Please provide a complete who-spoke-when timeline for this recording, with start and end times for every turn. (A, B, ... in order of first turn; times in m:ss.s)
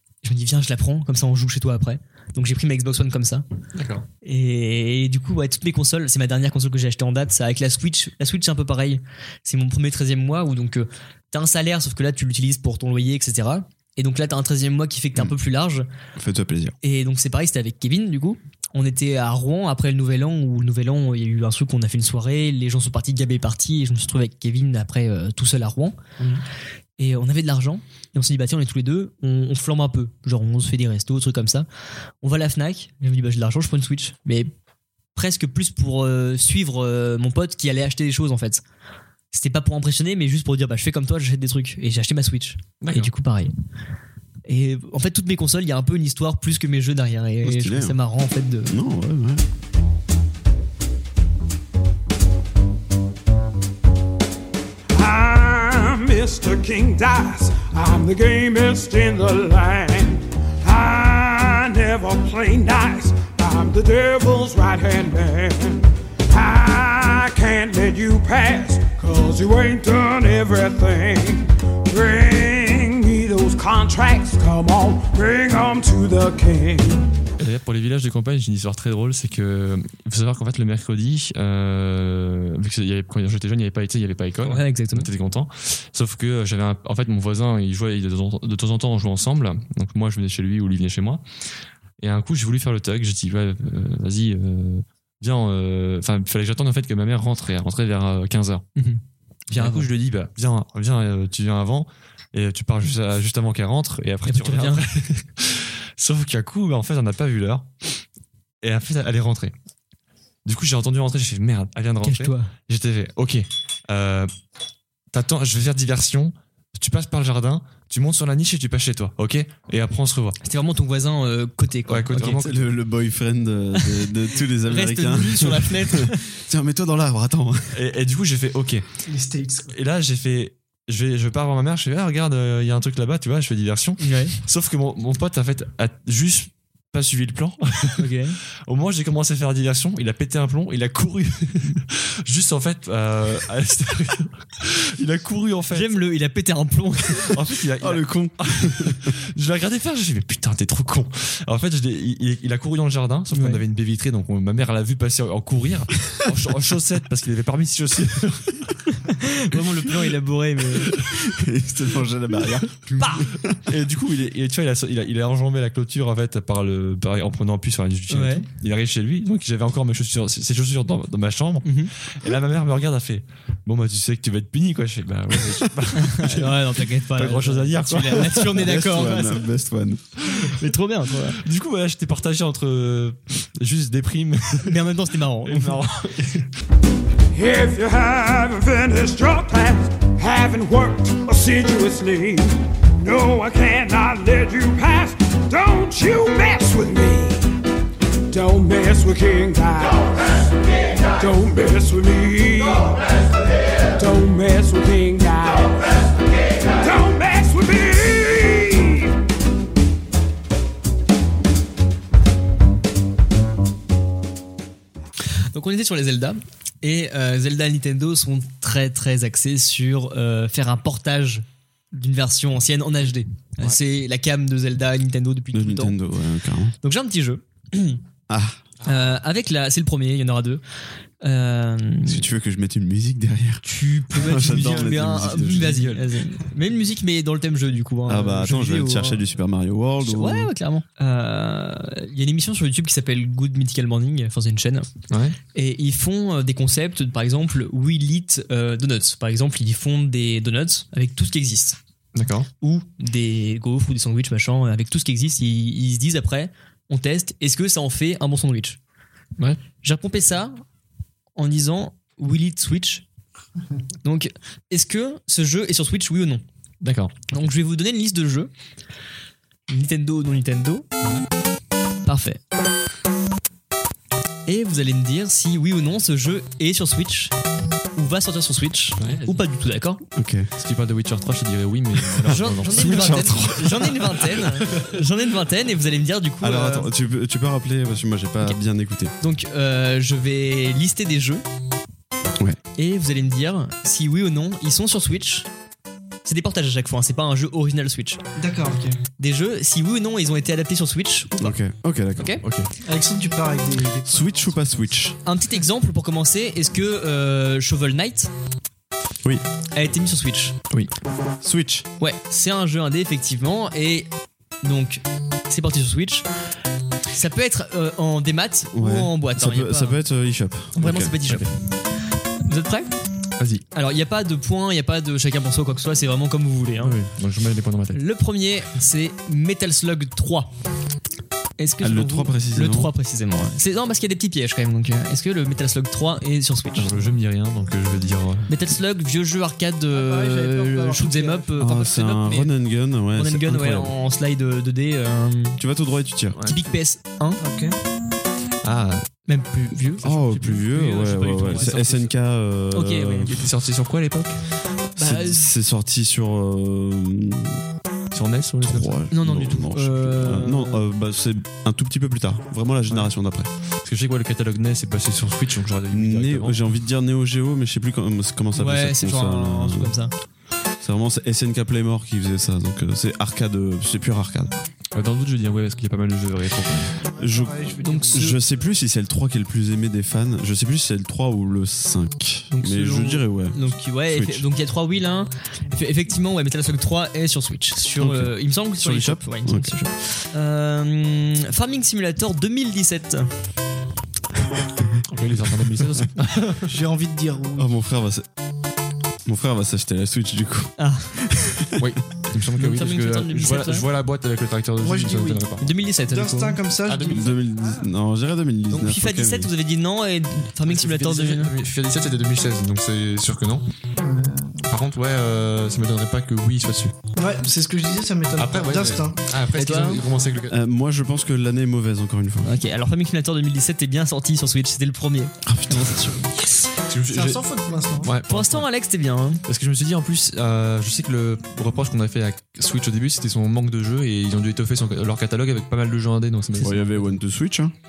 0:00.2-0:03.4 A
0:03.8-0:04.0 B
0:04.2-0:15.8 A
0:16.2-0:16.8 C
0:16.8-0:26.0 A
0:27.0-0:31.7 A
0:32.2-0:34.5 A
0:35.1-0:38.6 A
0:39.3-0:43.5 A
0:42.8-0:43.1 B
0:44.4-0:48.8 A
0:47.4-0:48.0 C
0:48.7-0:49.4 C
0:54.9-1:17.1 D
1:17.4-1:31.2 B
1:24.4-1:25.1 A
1:32.0-1:38.7 B
1:38.8-1:39.0 A
1:39.5-1:47.9 B
1:39.5-1:39.9 A
1:44.2-1:44.8 A
1:48.6-1:49.5 B
1:50.4-1:54.3 B
1:52.0-1:52.5 A
1:55.1-2:00.4 B
2:00.4-2:02.3 A
2:01.9-2:02.7 B
2:02.1-2:07.8 C
2:04.6-2:06.2 A
2:07.7-2:08.8 B
2:09.1-2:09.7 E
2:09.7-2:18.1 B
2:14.0-2:14.4 A
2:18.0-2:18.4 A
2:18.7-2:26.0 B
2:25.7-2:27.3 A
2:27.1-2:38.8 B
2:27.8-2:29.1 C
2:33.3-2:33.6 A
2:38.9-2:41.0 A
2:40.9-2:43.6 C
2:43.0-2:43.3 A
2:43.6-2:58.7 B
2:48.1-2:48.4 A
2:51.6-2:51.9 A
2:55.9-2:59.4 A
2:58.6-3:00.1 C
3:00.3-3:01.4 A
3:01.4-3:04.9 B
3:04.6-3:05.8 A
3:05.4-3:06.5 B
3:07.3-3:17.4 D
3:18.3-3:29.1 D
3:35.5-3:46.0 A
3:45.5-3:46.7 C
3:46.8-3:48.0 A
3:48.3-3:48.6 C
3:48.8-3:50.6 A
3:51.2-3:52.2 A
3:52.0-3:56.0 C
3:53.6-3:59.2 A
3:58.0-4:00.5 C
4:00.0-4:04.9 A
4:05.1-4:05.4 B
4:05.5-4:11.8 A
4:12.1-4:12.5 B
4:12.6-4:18.8 A
4:19.8-4:20.6 A
4:21.4-4:23.0 A
4:24.0-4:26.4 A
4:26.8-4:27.4 B
4:27.3-4:28.5 A
4:29.7-4:30.8 A
4:32.0-4:32.4 A
4:34.4-4:37.3 A
4:38.0-4:40.0 A
4:39.0-4:39.4 B
4:40.2-4:40.5 C
4:40.6-4:43.4 B
4:42.2-4:46.9 A
4:42.2-4:44.3 C
4:46.4-4:49.1 C
4:49.2-4:51.4 A
4:52.8-4:55.5 A
4:56.2-4:58.2 A
4:58.4-4:59.0 E
4:59.2-5:01.6 A
5:01.4-5:02.4 C
5:02.2-5:02.4 A
5:02.4-5:02.7 B
5:02.8-5:04.9 E
5:04.0-5:05.2 C
5:05.2-5:08.3 A
5:09.7-5:10.5 A
5:11.4-5:11.8 C
5:12.0-5:14.1 A
5:14.6-5:16.3 A
5:17.1-5:20.0 A
5:18.7-5:21.1 C
5:20.8-5:21.6 A
5:22.4-5:22.9 A
5:23.4-5:23.6 B
5:23.7-5:27.0 A
5:26.8-5:28.0 B
5:27.9-5:30.5 A
5:31.6-5:37.1 A
5:31.8-5:32.9 C
5:36.8-5:38.5 B
5:38.5-5:42.5 A
5:39.9-5:41.5 E
5:41.6-5:43.9 C
5:43.1-5:45.6 A
5:45.6-5:46.4 C
5:46.3-5:46.7 B
5:46.4-5:47.4 A
5:47.4-5:47.8 E
5:48.6-5:49.0 B
5:49.3-5:51.8 A
5:50.0-5:53.5 C
5:50.4-5:52.1 B
5:52.7-5:53.3 A
5:53.3-5:54.4 B
5:55.0-5:55.5 A
5:55.0-5:57.6 C
5:58.1-5:59.0 B
5:58.6-6:03.5 C
5:59.1-6:00.8 A
6:03.8-6:06.6 B
6:05.9-6:09.9 C
6:08.5-6:10.1 A
6:10.8-6:14.6 C
6:14.9-6:17.0 B
6:17.0-6:18.7 E
6:17.2-6:24.4 C
6:17.8-6:18.3 A
6:22.5-6:33.3 A
6:28.0-6:29.8 C
6:35.0-6:36.8 B
6:36.6-6:37.7 E
6:37.6-6:38.3 C
6:39.2-6:41.9 C
6:40.8-6:41.1 A
6:41.8-6:45.7 B
6:42.6-6:43.9 A
6:44.8-6:45.4 E
6:45.6-6:46.6 A
6:46.1-6:47.8 E
6:46.8-6:47.4 B
6:47.1-6:49.5 C
6:48.7-6:51.5 A
6:50.6-6:53.6 B
6:54.0-6:54.6 E
6:54.7-6:56.9 B
6:57.2-6:59.2 E
6:58.4-7:00.6 B
6:59.5-7:00.0 A
7:00.5-7:02.5 C
7:02.4-7:06.4 A
7:05.4-7:06.2 C
7:06.9-7:07.4 B
7:07.0-7:08.1 E
7:08.0-7:08.6 B
7:08.3-7:09.4 A
7:09.4-7:17.1 B
7:16.6-7:17.7 C